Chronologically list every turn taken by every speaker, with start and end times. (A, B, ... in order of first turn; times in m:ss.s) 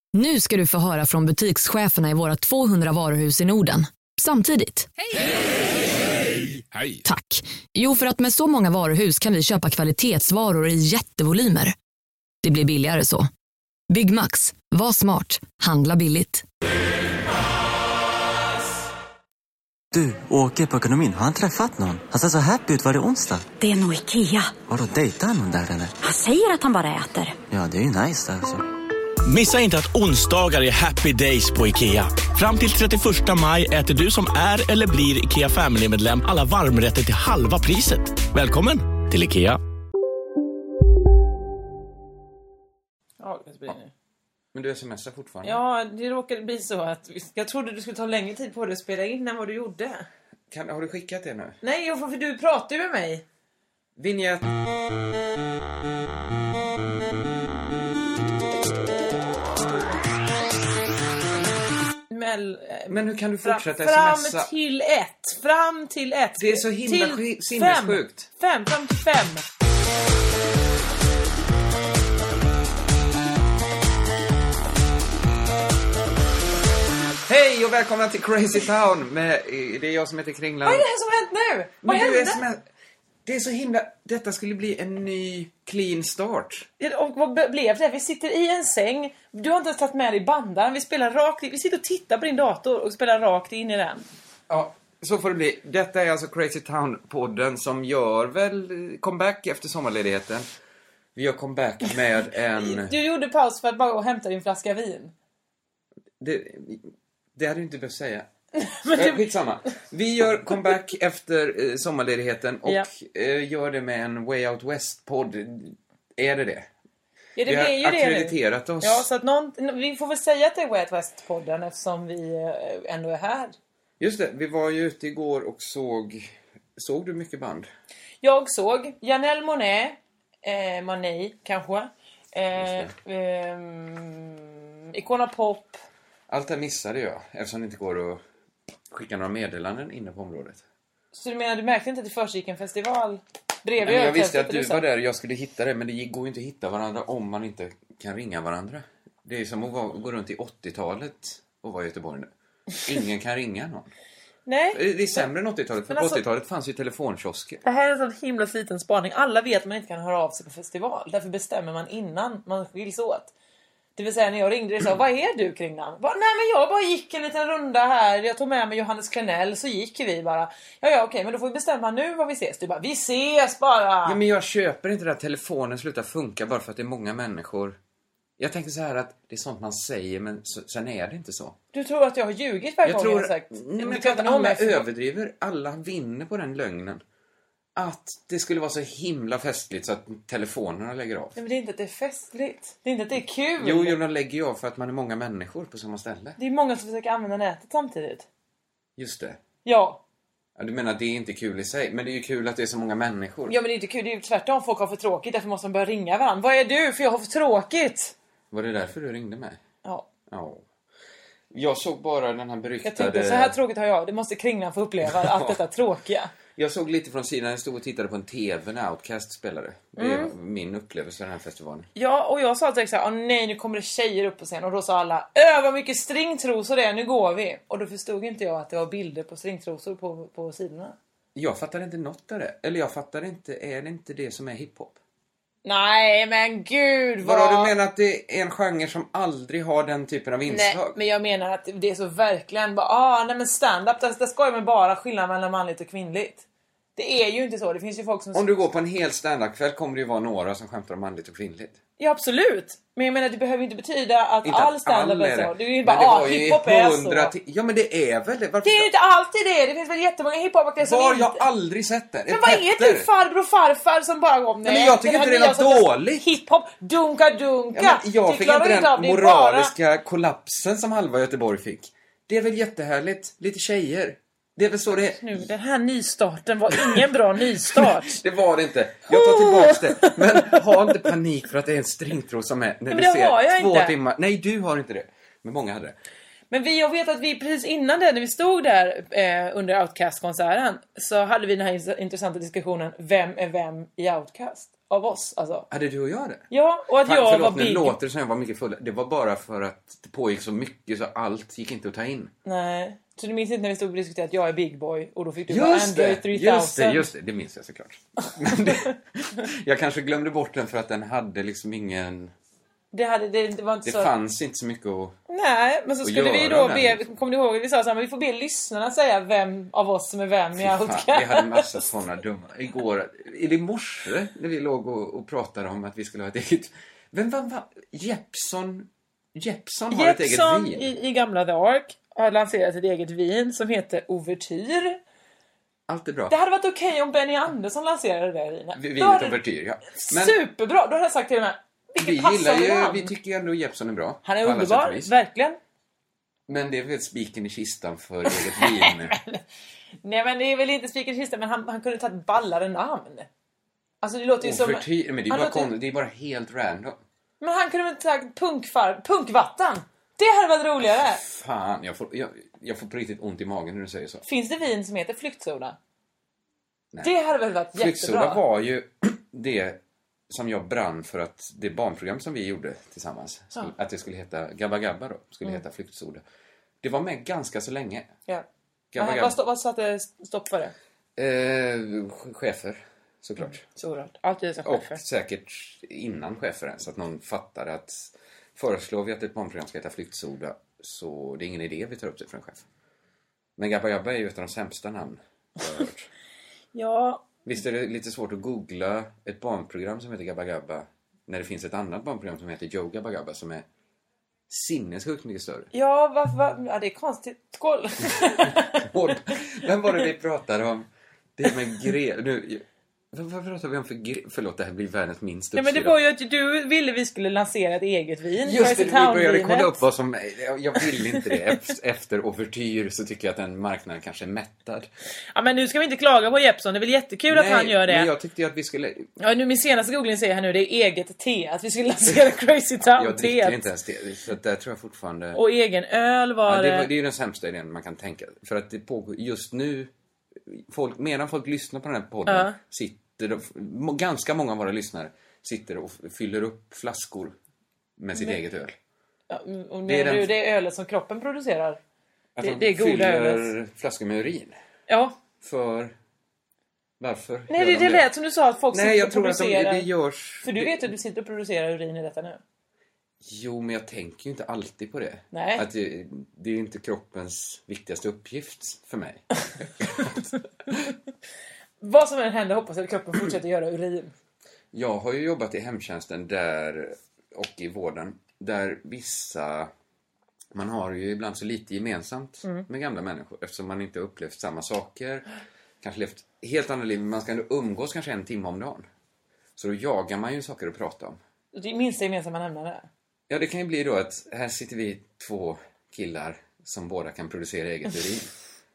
0:00.1-0:04.9 A
0:07.0-0:11.7 A
0:12.4-0:13.3 A
0:13.9-0:16.4 A
0:19.9-0:23.5 B
0:23.6-0:24.6 C
0:24.6-0:26.0 B
0:26.0-0:27.4 C
0:27.5-0:28.6 B
0:29.2-0:39.6 D
0:43.2-0:43.9 E
0:44.5-0:45.6 F
0:45.4-0:50.1 E
0:50.5-0:51.6 F
0:51.6-0:53.2 E
0:54.0-0:54.5 F
1:02.1-1:09.4 E
1:02.9-1:04.5 F
1:06.4-1:08.3 F
1:17.2-1:20.8 F
1:20.6-1:22.4 E
1:21.8-1:22.6 F
1:23.2-1:26.7 F
1:26.8-1:34.0 E
1:34.5-1:40.5 F
1:41.1-1:42.9 F
1:42.5-1:45.1 E
1:46.2-1:48.2 F
1:48.6-1:49.2 E
1:48.9-1:56.7 F
1:57.4-2:03.5 E
1:57.4-1:59.0 F
2:04.0-2:07.7 F
2:08.2-2:15.8 E
2:12.5-2:12.9 F
2:16.3-2:18.2 F
2:18.9-2:20.6 F
2:21.1-2:24.8 E
2:23.8-2:32.3 F
2:32.8-2:33.9 F
2:34.4-2:35.3 E
2:34.7-2:37.6 F
2:35.8-2:36.2 E
2:37.6-2:43.3 E
2:44.0-2:54.2 E
2:54.0-2:57.8 F
2:58.4-3:01.6 F
3:01.7-3:04.8 E
3:02.8-3:07.0 F
3:07.8-3:11.4 F
3:11.4-3:14.0 E
3:13.6-3:16.4 F
3:16.4-3:18.2 E
3:19.0-3:19.4 F
3:19.6-3:20.0 E
3:20.6-3:23.6 F
3:23.5-3:28.1 E
3:28.5-3:29.6 F
3:30.3-3:30.6 F
3:31.5-3:33.6 F
3:32.8-3:36.3 E
3:35.0-3:35.6 F
3:36.5-3:41.9 F
3:40.0-3:40.3 E
3:42.0-3:51.0 E
3:51.3-3:55.0 F
3:55.6-3:57.7 E
3:57.2-4:00.9 F
4:00.4-4:06.4 E
4:07.0-4:08.7 E
4:08.3-4:11.8 F
4:12.0-4:17.3 E
4:14.4-4:18.9 F
4:18.6-4:21.4 E
4:20.8-4:23.1 F
4:22.3-4:29.7 E
4:24.6-4:26.2 F
4:27.7-4:35.4 F
4:35.2-4:38.2 E
4:37.7-4:45.9 F
4:39.1-4:40.9 E
4:42.9-4:44.0 E
4:46.5-4:55.7 E
4:55.7-4:56.4 F
4:56.5-4:58.0 E
4:57.0-5:02.3 F
5:02.4-5:07.1 E
5:05.5-5:12.3 F
5:08.4-5:08.9 E
5:12.9-5:14.1 E
5:13.8-5:15.1 F
5:15.3-5:21.8 E
5:16.0-5:17.0 F
5:20.6-5:30.9 F
5:29.9-5:35.0 E
5:35.9-5:36.3 F
5:36.3-5:39.4 E
5:38.7-5:40.4 F
5:39.9-5:43.1 E
5:42.0-5:45.1 F
5:44.2-5:45.6 E
5:46.5-5:49.1 F
5:48.3-5:49.4 E
5:50.0-5:53.3 E
5:54.0-5:55.7 E
5:54.4-5:57.0 F
5:57.4-6:01.2 E
6:01.0-6:04.2 F
6:04.2-6:05.8 E
6:07.0-6:08.4 E
6:07.7-6:16.2 F
6:16.8-6:18.1 F
6:18.9-6:19.4 F
6:19.0-6:20.7 E
6:21.2-6:23.6 F
6:23.6-6:25.0 E
6:24.6-6:32.6 F
6:33.6-6:36.1 F
6:36.7-6:37.2 E
6:37.4-6:43.6 F
6:44.5-6:45.7 F
6:45.7-6:49.3 E
6:48.5-6:56.0 F
6:55.5-6:59.8 E
6:58.4-7:04.9 F
7:05.3-7:08.1 E
7:07.3-7:09.1 F
7:09.2-7:13.7 E
7:12.8-7:15.4 F
7:15.3-7:16.9 E
7:16.4-7:19.9 F
7:20.4-7:27.3 F
7:22.2-7:22.6 E
7:28.0-7:28.8 F
7:28.1-7:28.4 E
7:29.3-7:31.8 E
7:29.9-7:30.3 F
7:32.4-7:34.6 F
7:32.4-7:33.5 E
7:34.9-7:35.2 E
7:35.4-7:35.9 F
7:37.0-7:38.1 F
7:37.5-7:39.9 E
7:38.7-7:40.9 F
7:40.4-7:42.4 E
7:43.2-7:50.2 F
7:45.3-7:45.6 E
7:51.8-7:54.1 E
7:54.7-7:59.7 F
8:00.5-8:05.2 F
8:05.8-8:08.9 F
8:09.6-8:11.2 F
8:11.5-8:12.9 E
8:13.3-8:18.3 F